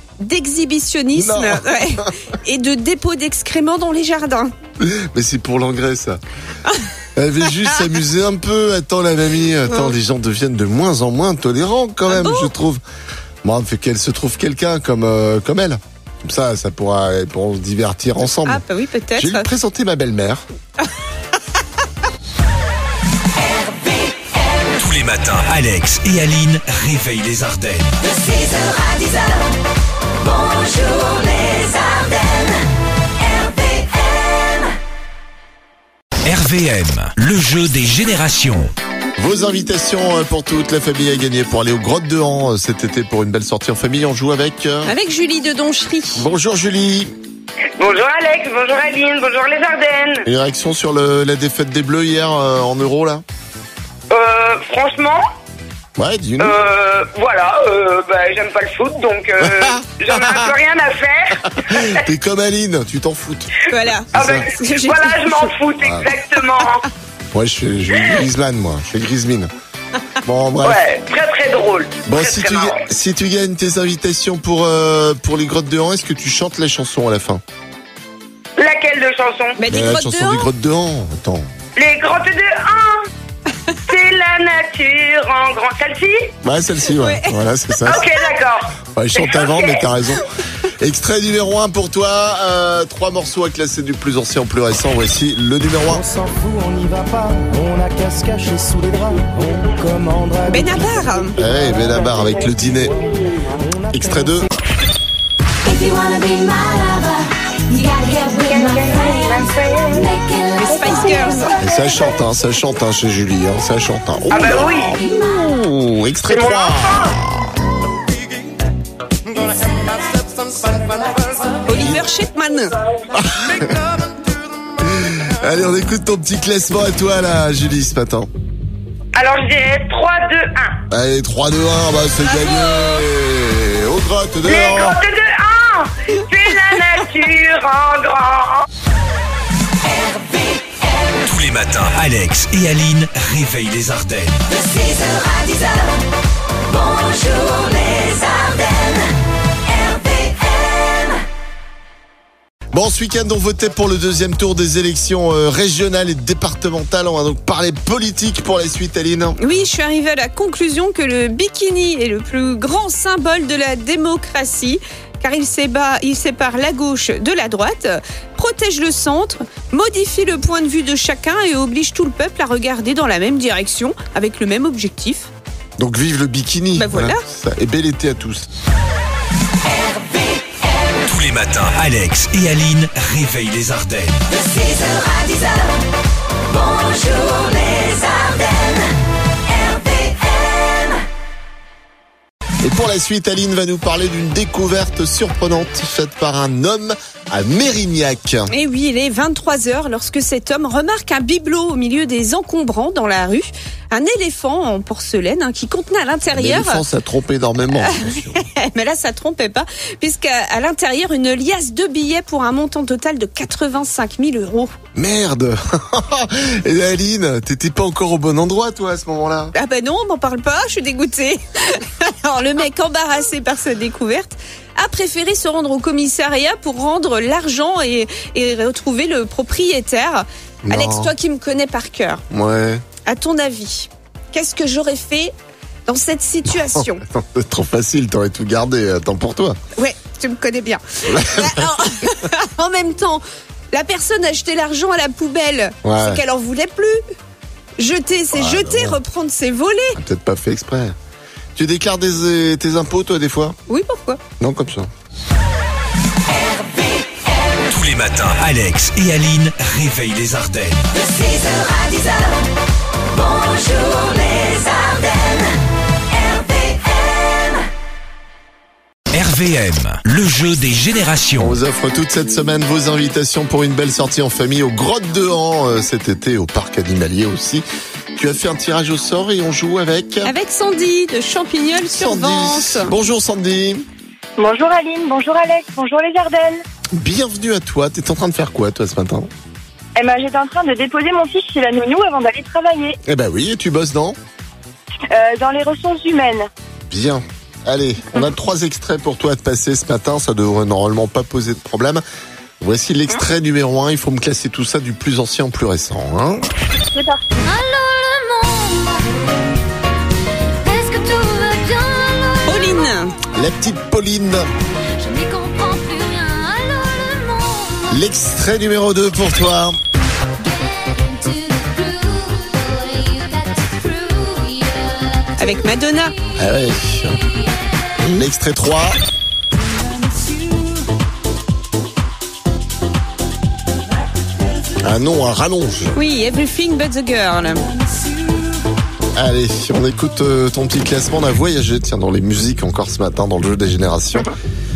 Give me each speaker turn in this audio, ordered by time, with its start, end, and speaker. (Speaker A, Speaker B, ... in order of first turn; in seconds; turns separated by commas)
Speaker A: 0.2-4.5, Speaker B: 1.1-2.1, Speaker B: 4.8-6.2, Speaker B: 7.2-12.8, Speaker A: 12.1-12.5, Speaker B: 13.4-18.6, Speaker A: 18.4-19.5, Speaker B: 19.2-20.4, Speaker C: 24.8-27.9, Speaker C: 36.2-38.7, Speaker B: 39.2-44.9, Speaker A: 44.9-46.3, Speaker B: 46.1-47.1, Speaker D: 47.8-50.2, Speaker B: 50.2-53.2, Speaker D: 54.1-55.2, Speaker B: 56.0-56.6, Speaker D: 56.4-62.0, Speaker B: 59.4-60.5, Speaker B: 61.7-63.5, Speaker A: 63.7-65.5, Speaker B: 64.1-64.5, Speaker D: 64.1-66.8, Speaker B: 65.8-66.1, Speaker B: 67.3-69.5, Speaker B: 70.2-70.8, Speaker D: 70.6-72.8, Speaker B: 72.0-77.4, Speaker D: 78.6-79.6, Speaker A: 79.6-80.5, Speaker B: 79.7-81.5, Speaker D: 81.8-83.1, Speaker D: 83.9-86.3, Speaker B: 86.4-88.0, Speaker A: 86.8-87.4, Speaker D: 87.8-89.9, Speaker B: 88.9-90.2, Speaker B: 90.8-96.1, Speaker E: 96.1-100.4, Speaker A: 100.5-101.3, Speaker B: 101.3-103.0, Speaker E: 103.6-104.0, Speaker B: 103.9-104.5, Speaker F: 105.6-111.5, Speaker G: 108.3-110.2, Speaker A: 110.6-111.5, Speaker G: 110.7-111.6, Speaker B: 111.6-117.5, Speaker D: 114.3-115.0, Speaker D: 116.3-117.1, Speaker A: 121.6-122.7, Speaker B: 121.7-122.0, Speaker B: 123.1-123.8, Speaker B: 124.8-128.3, Speaker D: 129.1-130.8, Speaker B: 130.9-135.0, Speaker A: 132.4-132.8, Speaker D: 134.4-138.6, Speaker C: 141.2-144.4, Speaker B: 152.7-159.3, Speaker A: 159.4-175.3, Speaker B: 175.8-178.5, Speaker A: 176.8-177.2, Speaker C: 181.1-184.2, Speaker B: 192.6-198.5, Speaker A: 198.5-206.8, Speaker B: 206.3-208.4, Speaker A: 207.8-214.7, Speaker B: 214.9-219.5, Speaker A: 219.5-232.2, Speaker B: 230.6-231.1, Speaker B: 232.3-232.8, Speaker A: 233.0-235.3, Speaker A: 235.8-237.0, Speaker B: 236.8-239.6, Speaker A: 239.8-247.0, Speaker B: 241.1-241.6, Speaker B: 245.8-246.2, Speaker A: 247.8-250.0, Speaker B: 248.3-249.0, Speaker B: 249.9-250.9, Speaker B: 251.6-253.6, Speaker A: 253.7-254.2, Speaker B: 254.4-254.9, Speaker C: 257.7-260.9, Speaker C: 269.1-271.6, Speaker B: 271.4-280.3, Speaker A: 280.2-282.9, Speaker B: 281.9-283.8, Speaker G: 284.4-286.6, Speaker B: 286.9-289.3, Speaker G: 289.9-293.0, Speaker B: 293.1-294.2, Speaker G: 295.1-296.5, Speaker B: 296.9-302.0, Speaker B: 302.6-306.5, Speaker G: 306.9-307.2, Speaker F: 307.4-309.0, Speaker F: 310.6-312.8, Speaker A: 312.4-313.1, Speaker B: 313.3-314.5, Speaker F: 315.0-318.0, Speaker B: 317.9-319.8, Speaker F: 320.4-325.3, Speaker A: 325.4-326.1, Speaker B: 326.4-327.2, Speaker B: 328.0-329.0, Speaker B: 334.8-335.9, Speaker A: 335.9-337.6, Speaker B: 339.1-344.3